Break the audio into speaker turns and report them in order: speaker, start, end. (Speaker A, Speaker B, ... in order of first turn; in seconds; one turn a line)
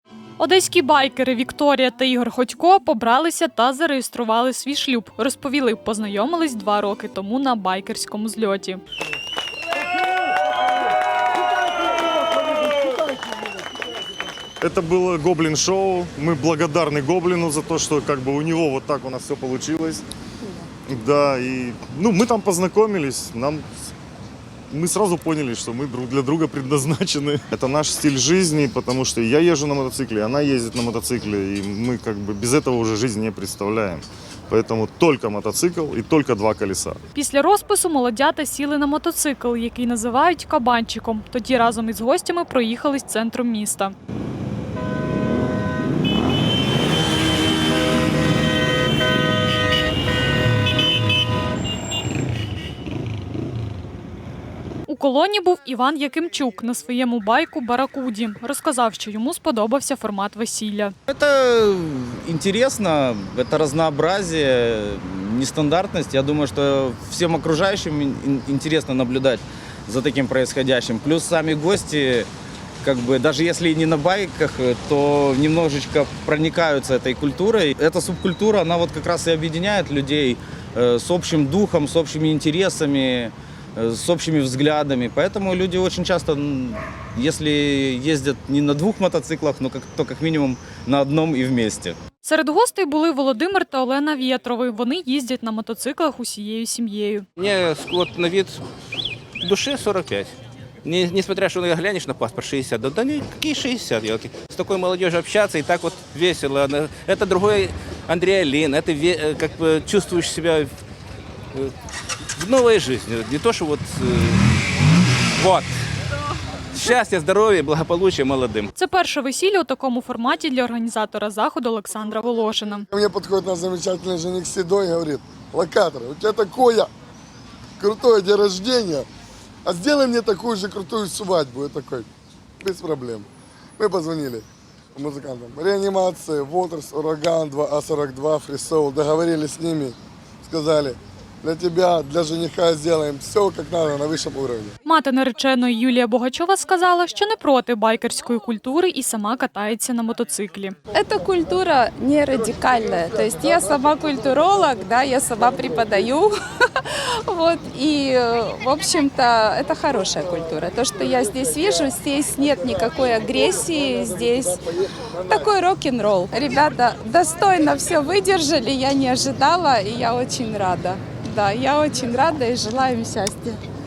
Speaker A: 0.4-8.8
Speaker B: 14.6-20.0
Speaker B: 20.9-23.6
Speaker B: 24.7-37.0
Speaker A: 37.1-43.9
Speaker A: 54.9-60.9
Speaker C: 61.1-72.3
Speaker C: 72.8-92.0
Speaker A: 92.2-97.3
Speaker D: 97.4-98.6
Speaker D: 99.4-100.3
Speaker D: 100.8-110.7
Speaker D: 112.4-114.4
Speaker D: 115.4-115.7
Speaker D: 116.7-118.7
Speaker A: 118.8-122.9
Speaker E: 122.9-126.9
Speaker E: 127.8-129.1
Speaker E: 129.7-132.1
Speaker E: 132.6-144.8
Speaker A: 144.8-150.8
Speaker F: 150.9-164.7
Speaker F: 165.2-173.6